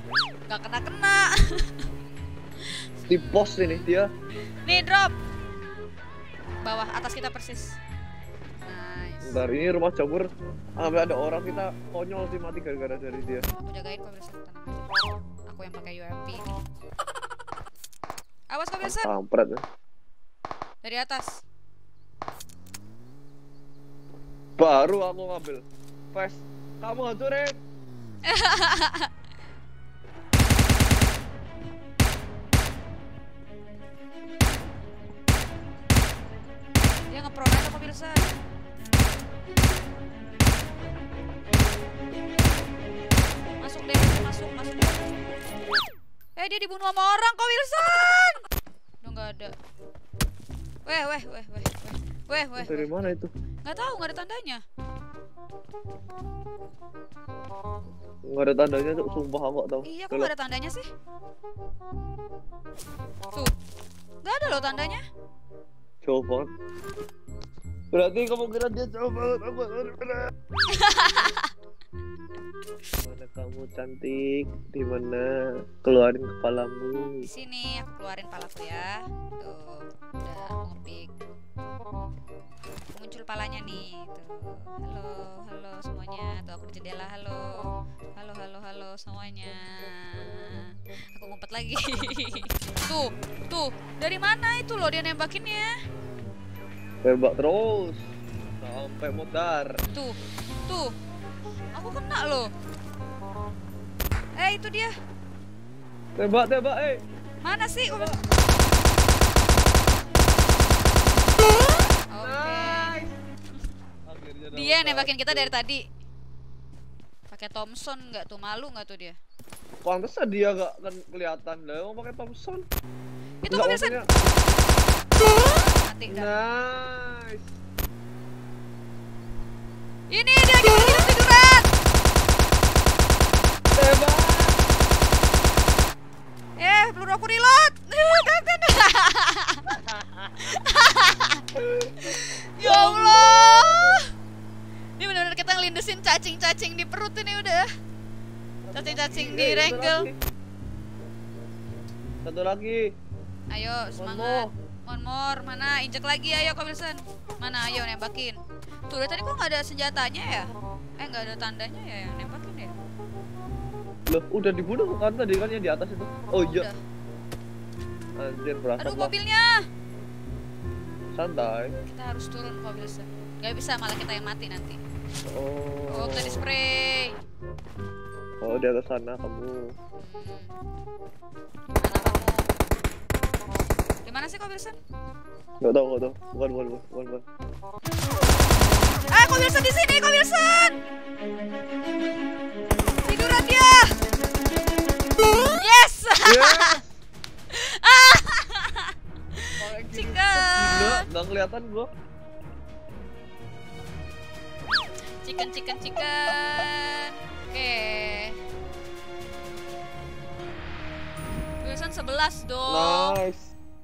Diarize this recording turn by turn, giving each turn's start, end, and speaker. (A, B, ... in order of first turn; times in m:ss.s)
0:00.5-0:01.9 A
0:02.7-0:03.8 A
0:03.1-0:04.1 B
0:04.6-0:05.1 A
0:06.6-0:07.8 A
0:08.6-0:09.5 A
0:09.2-0:10.3 B
0:10.8-0:13.5 B
0:13.5-0:14.9 A
0:15.5-0:16.6 A
0:18.5-0:19.2 A
0:18.8-0:19.6 B
0:20.8-0:21.4 A
0:24.6-0:27.6 B
0:28.3-0:29.1 A
0:37.1-0:38.4 A
0:43.6-0:45.1 A
0:46.4-0:48.4 A
0:49.0-0:49.6 A
0:50.8-0:54.6 A
0:52.6-0:53.3 B
0:58.3-1:00.3 B
0:59.8-1:00.9 A
1:04.2-1:05.0 A
1:06.0-1:06.5 B
1:07.9-1:10.3 B
1:10.7-1:11.5 A
1:12.9-1:17.3 B
1:17.2-1:21.1 A
1:22.9-1:35.8 A
1:37.0-1:39.7 B
1:40.7-1:40.9 A
1:41.7-1:42.5 A
1:44.4-1:44.9 A
1:46.2-1:47.0 B
1:47.4-1:48.2 A
1:47.9-1:48.2 B
1:52.1-1:53.0 A
1:52.2-1:53.1 B
1:54.1-1:55.5 B
1:54.5-1:55.8 A
1:57.3-1:59.2 A
1:59.8-2:02.6 B
2:03.4-2:04.0 A
2:03.5-2:04.1 B
2:05.2-2:06.3 A
2:06.1-2:07.5 B
2:10.1-2:11.7 A
2:13.8-2:14.6 B
2:16.6-2:19.8 A
2:19.9-2:20.2 B
2:20.4-2:21.4 A
2:21.6-2:23.6 B
2:22.0-2:24.1 A
2:25.0-2:27.7 A
2:28.7-2:30.2 B
2:28.7-2:30.1 A
2:32.2-2:32.9 B
2:33.5-2:42.8 A
2:34.0-2:34.5 B
2:44.1-2:46.7 B
2:46.4-2:46.8 A
2:48.2-2:49.1 B
2:48.8-2:49.6 A
2:51.2-2:51.7 B
2:51.8-2:54.8 A
2:55.2-2:56.4 B
2:55.9-2:57.2 A
2:58.4-2:59.7 B
3:00.0-3:00.5 A
3:01.7-3:02.5 A
3:04.0-3:04.8 A
3:05.6-3:07.2 B
3:09.1-3:10.8 A
3:13.0-3:13.9 A
3:15.5-3:16.8 A
3:16.2-3:17.0 B
3:17.5-3:21.1 A
3:19.6-3:21.9 B
3:25.2-3:28.4 A
3:31.6-3:33.2 A
3:32.7-3:33.6 B